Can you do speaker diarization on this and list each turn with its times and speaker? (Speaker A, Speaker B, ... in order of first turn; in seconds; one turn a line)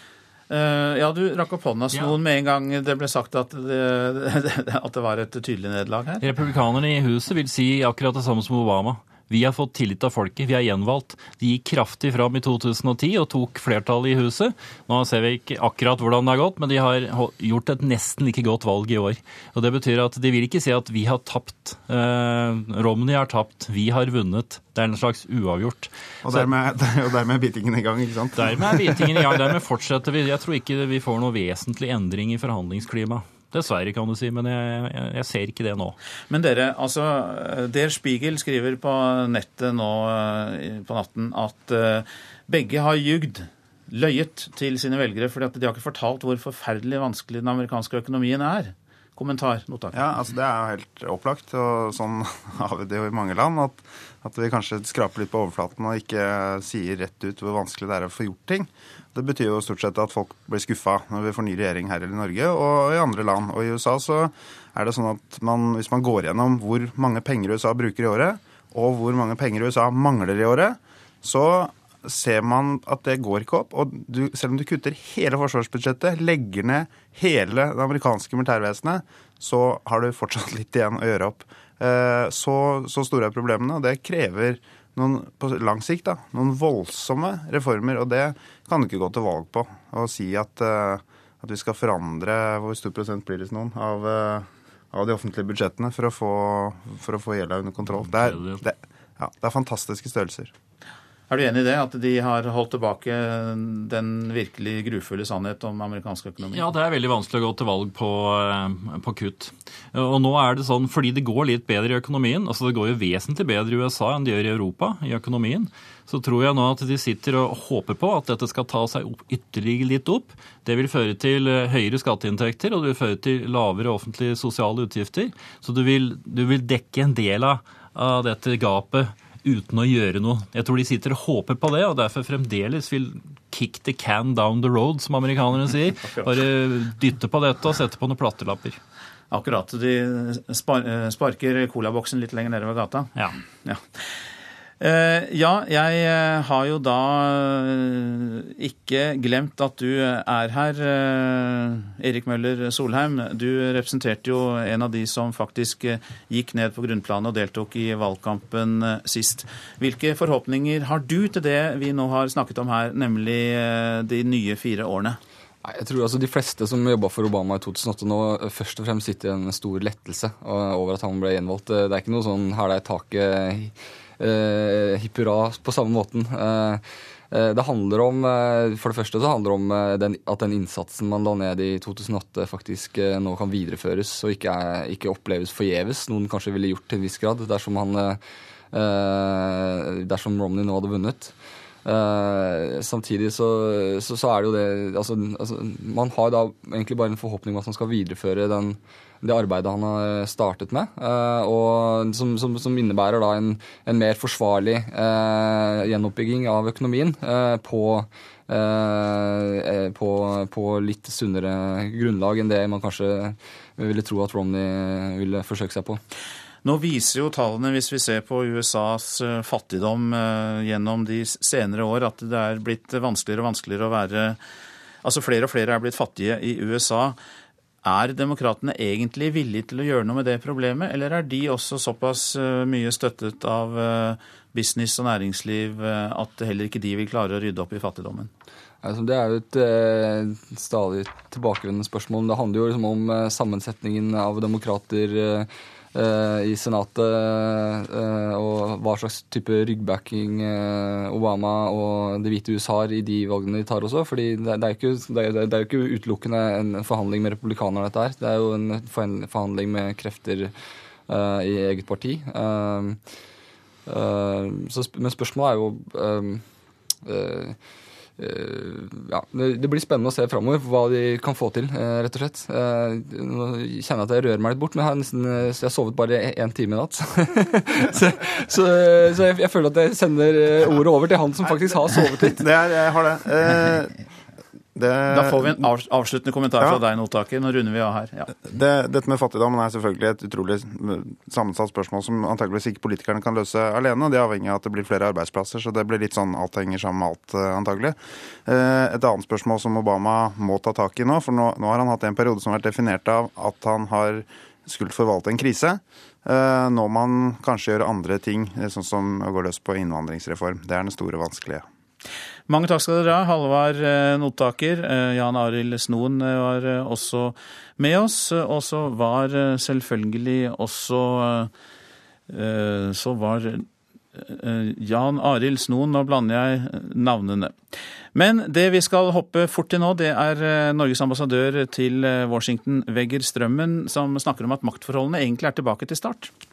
Speaker A: 0.5-6.2
Speaker B: 1.9-2.2
Speaker B: 6.2-26.5
Speaker C: 26.2-29.4
Speaker B: 28.4-36.0
Speaker A: 36.3-50.0
Speaker C: 49.9-100.5
Speaker B: 98.0-98.6
Speaker A: 101.3-106.7
Speaker B: 106.5-138.8
Speaker A: 139.3-143.1
Speaker A: 143.6-144.2
Speaker A: 144.8-165.2
Speaker D: 165.6-188.2
Speaker D: 188.7-216.0
Speaker A: 216.6-224.4
Speaker A: 225.0-227.2
Speaker A: 227.8-238.3
Speaker D: 238.8-260.5
Speaker D: 261.1-263.0
Speaker D: 263.9-266.4
Speaker D: 267.0-267.6
Speaker D: 268.2-282.4
Speaker C: 282.4-283.9
Speaker C: 284.7-285.7
Speaker A: 285.1-288.4
Speaker C: 288.4-311.6
Speaker A: 312.5-321.5
Speaker A: 322.3-327.6
Speaker A: 328.1-336.3